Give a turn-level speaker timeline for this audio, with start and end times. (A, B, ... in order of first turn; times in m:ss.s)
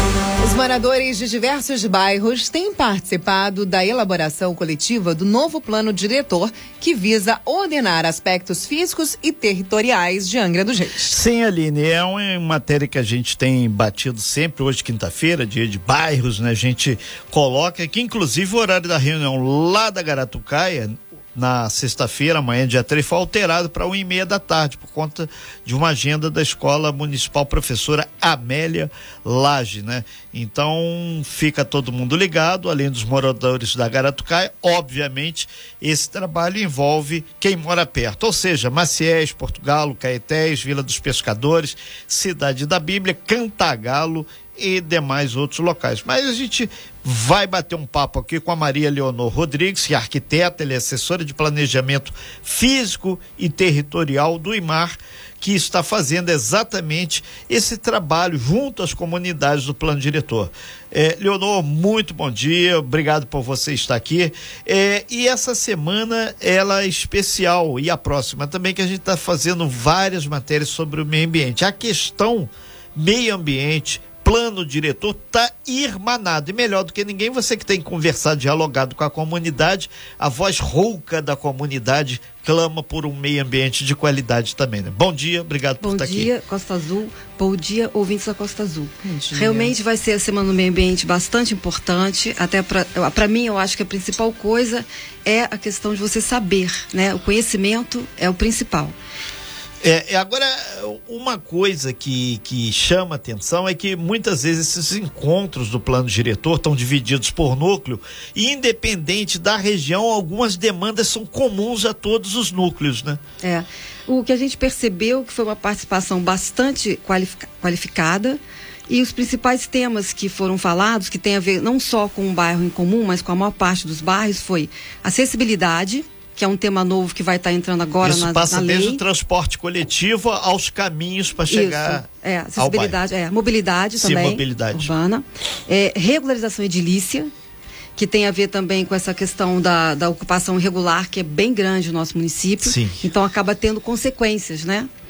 0:00.4-0:11.2 A
0:11.1-1:26.3 B
1:25.8-1:39.0 C
1:29.0-1:29.7 A
1:39.8-1:53.2 B
1:53.4-2:09.0 C
2:08.0-2:12.1 B
2:11.5-2:17.3 C
2:12.6-2:13.0 B
2:14.0-2:14.9 B
2:18.0-2:24.9 C
2:22.6-2:23.0 B